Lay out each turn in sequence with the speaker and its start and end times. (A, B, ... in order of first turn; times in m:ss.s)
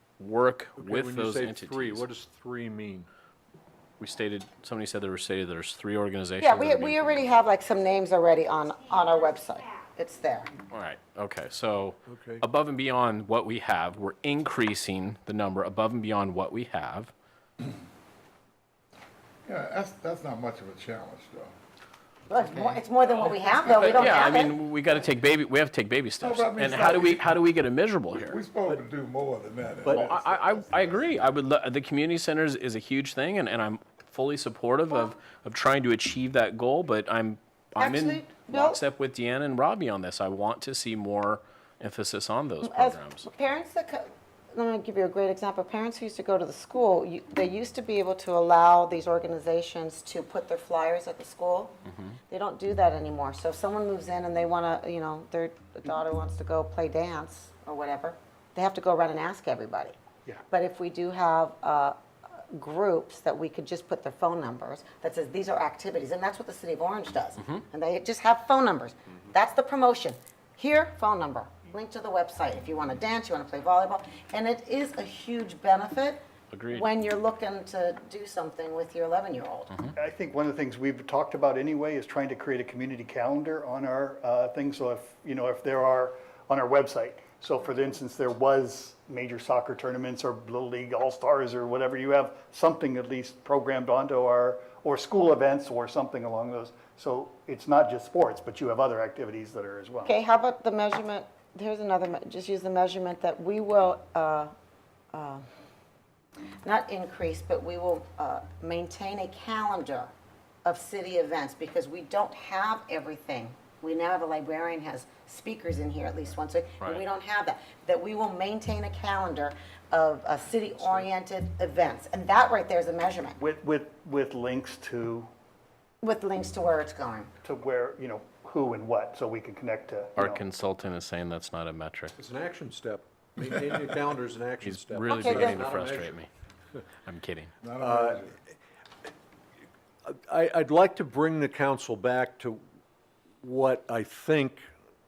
0:00.2-0:02.0 A
0:00.8-0:03.1 B
0:04.0-0:07.2 A
0:06.4-0:10.5 C
0:10.7-0:17.1 A
0:12.1-0:12.4 B
0:19.4-0:21.5 D
0:22.3-0:24.6 C
0:23.4-0:24.3 D
0:23.6-0:28.4 A
0:26.2-0:27.4 D
0:28.1-0:31.1 D
0:29.8-0:30.2 B
0:29.9-0:43.3 A
0:37.8-0:38.8 C
0:42.6-0:51.7 C
0:51.8-0:52.2 A
0:52.3-0:59.9 C
1:00.5-1:19.7 C
1:16.5-1:16.8 A
1:20.0-1:40.1 E
1:40.0-1:44.5 C
1:45.1-1:45.4 C
1:46.6-1:50.1 C
1:50.6-2:03.4 C
2:03.4-2:05.3 E
2:06.0-2:07.3 C
2:07.4-2:10.4 E
2:10.2-2:12.1 A
2:12.2-2:16.2 B
2:14.6-2:16.3 A
2:15.1-2:15.7 C
2:17.0-2:17.5 A
2:17.6-2:18.4 D
2:17.8-2:18.2 B
2:20.0-2:22.6 B
2:23.4-2:24.7 B